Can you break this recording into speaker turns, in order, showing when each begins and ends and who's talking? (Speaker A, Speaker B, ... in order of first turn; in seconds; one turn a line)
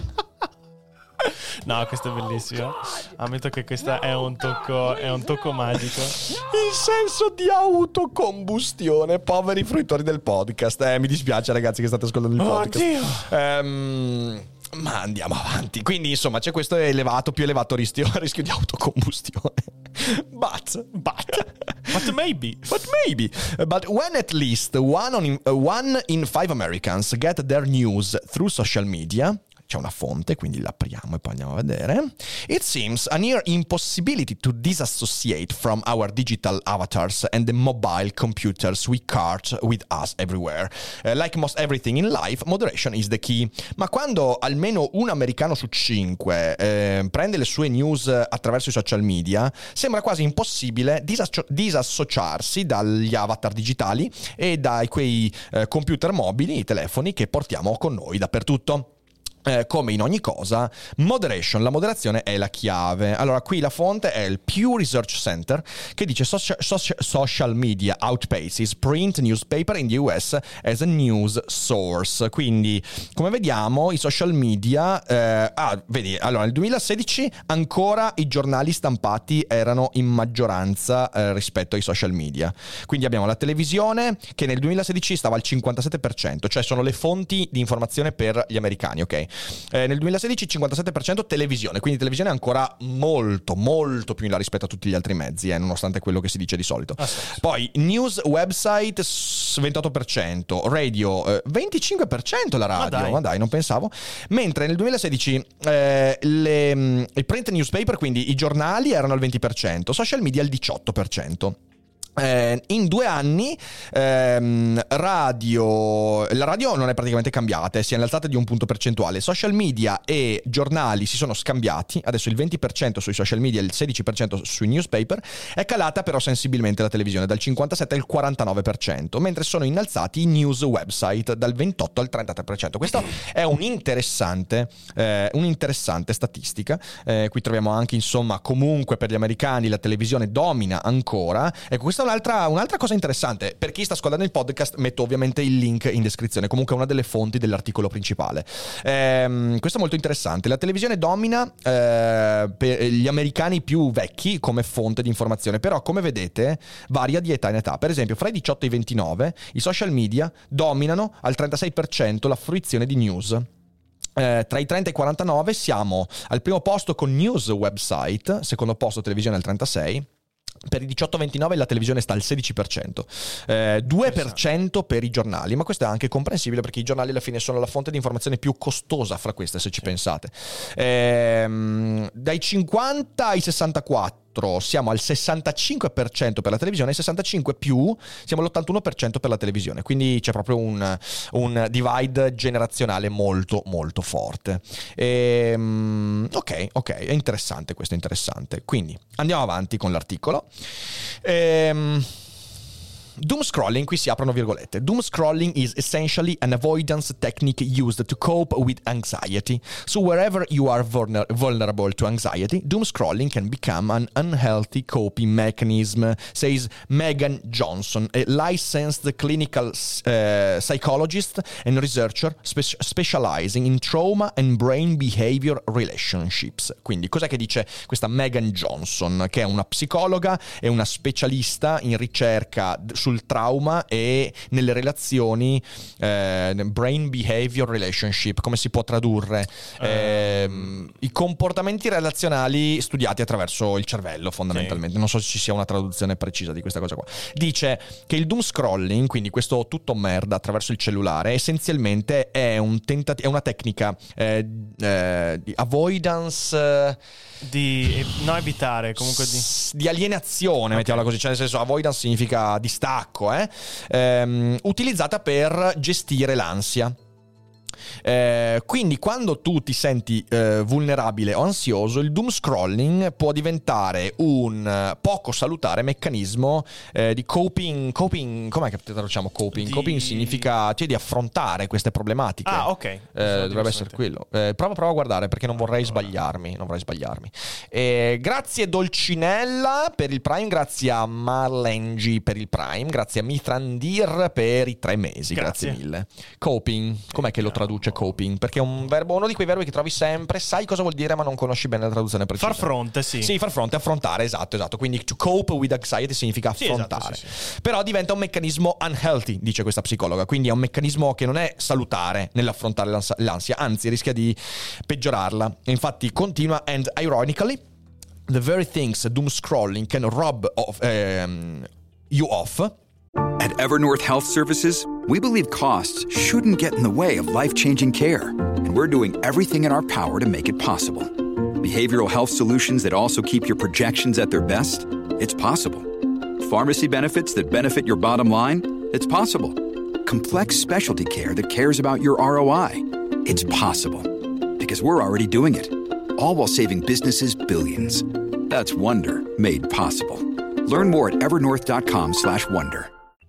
Speaker A: 1.6-6.2
Speaker B: 6.2-21.9
Speaker A: 12.4-13.3
Speaker A: 20.9-22.6
Speaker B: 22.6-58.9
Speaker B: 59.5-111.6
Speaker A: 97.0-97.4
Speaker A: 102.7-103.2
Speaker B: 112.2-163.5
Speaker B: 164.2-170.1
Speaker B: 170.7-200.5
Speaker A: 174.1-174.4
Speaker B: 201.2-202.1
Speaker B: 203.2-257.0
Speaker A: 239.8-240.7
Speaker A: 244.5-244.8
Speaker A: 257.4-259.5
Speaker B: 259.0-266.9
Speaker A: 260.7-261.1
Speaker B: 268.0-302.7
Speaker A: 279.5-280.5
Speaker A: 282.4-284.0
Speaker A: 295.3-295.8
Speaker A: 297.1-297.9
Speaker A: 302.4-303.3
Speaker B: 303.2-317.6
Speaker A: 306.6-307.3
Speaker B: 318.3-322.7
Speaker C: 323.4-352.9